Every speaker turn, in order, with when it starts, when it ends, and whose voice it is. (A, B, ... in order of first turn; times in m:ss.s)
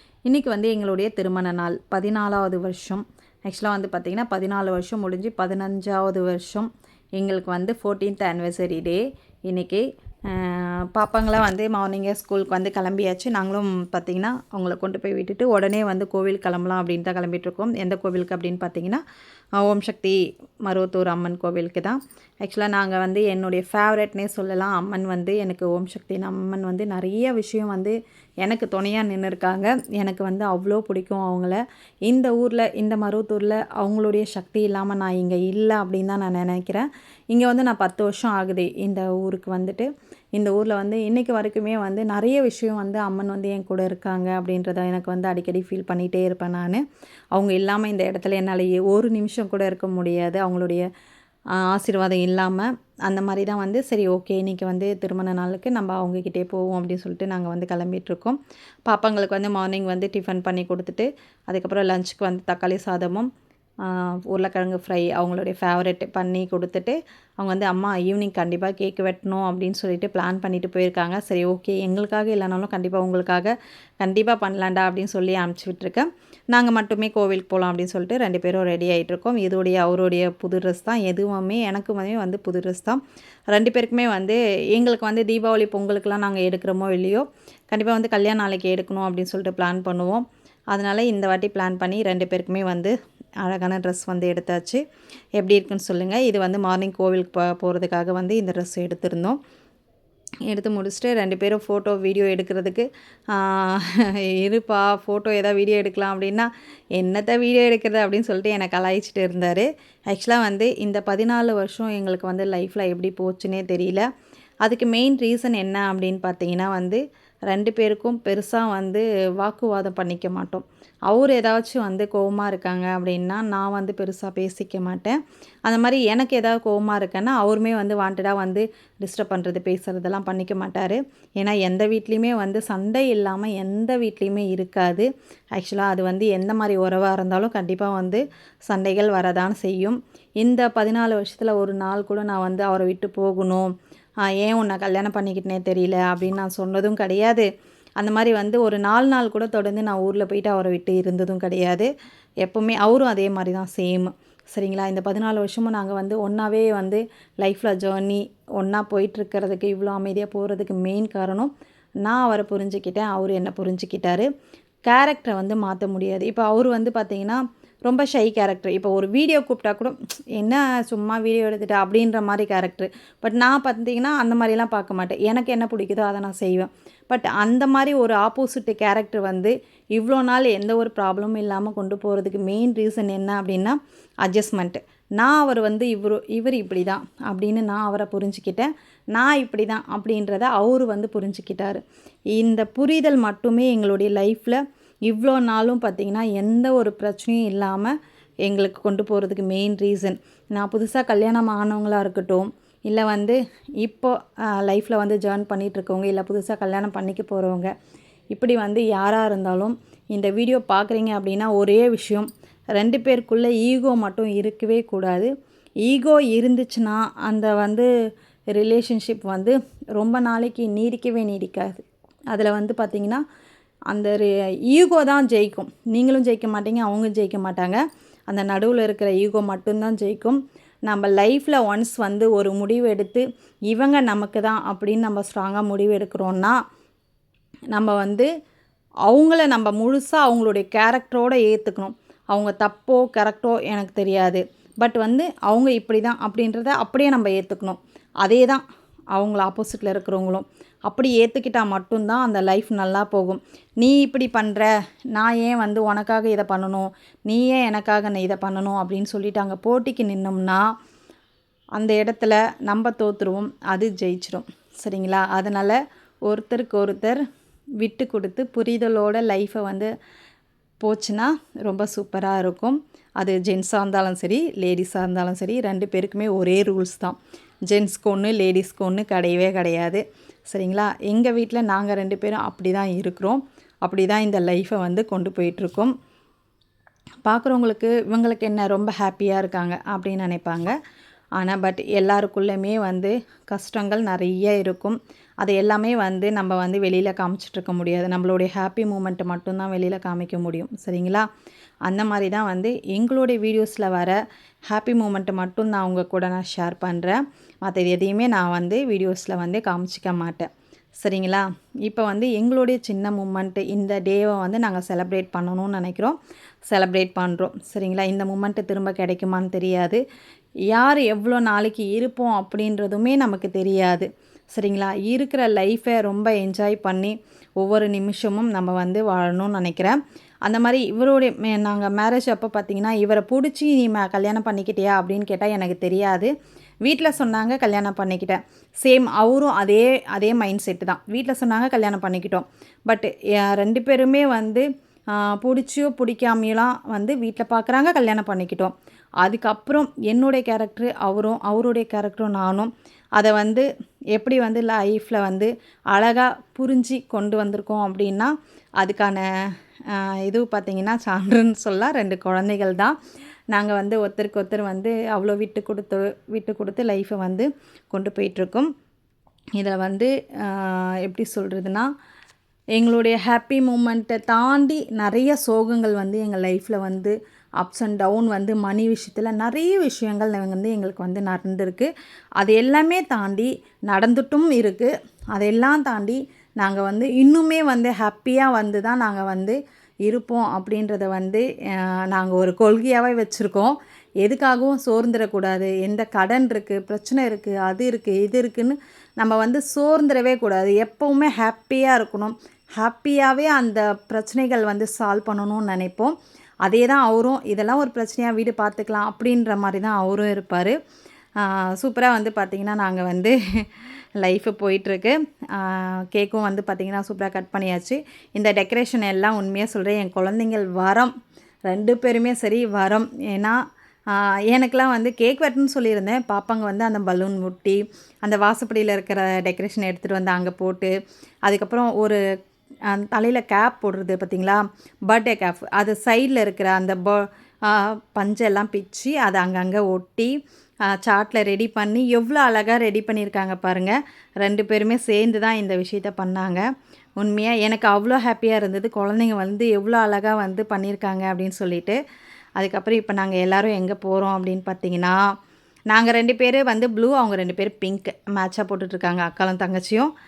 0:00.2-0:19.0 A
0:19.6-0:50.8 A
0:51.5-1:03.3 A
1:03.8-1:23.0 A
1:23.5-1:34.8 A
1:35.4-1:39.4 A
1:40.5-1:54.1 A
1:54.6-2:23.7 A
2:24.3-2:27.5 A
2:28.0-2:31.9 A
2:32.4-2:41.5 A
2:42.0-2:44.3 A
2:44.8-3:11.8 A
3:12.3-3:27.7 A
3:28.3-3:35.3 A
3:35.8-3:37.9 A
3:38.5-3:43.2 A
3:43.9-3:56.6 A
3:57.7-3:58.3 A
3:59.1-4:08.6 A
4:09.1-4:20.6 A
4:21.8-4:27.2 A
4:27.8-4:29.9 A
4:30.8-4:45.9 A
4:47.2-4:50.8 A
4:51.4-5:01.2 A
5:01.9-5:16.2 A
5:16.7-5:20.0 A
5:20.7-5:36.3 A
5:36.8-5:59.3 A
5:59.9-6:02.9 A
6:03.5-6:08.7 A
6:09.6-6:11.9 A
6:12.7-6:50.8 A
6:51.4-6:53.6 A
6:54.2-7:01.1 A
7:01.7-7:03.6 A
7:04.1-7:10.9 A
7:11.4-7:12.2 A
7:12.9-7:20.3 A
7:20.9-7:26.6 A
7:27.2-7:32.0 A
7:32.6-7:35.2 A
7:35.9-7:40.1 A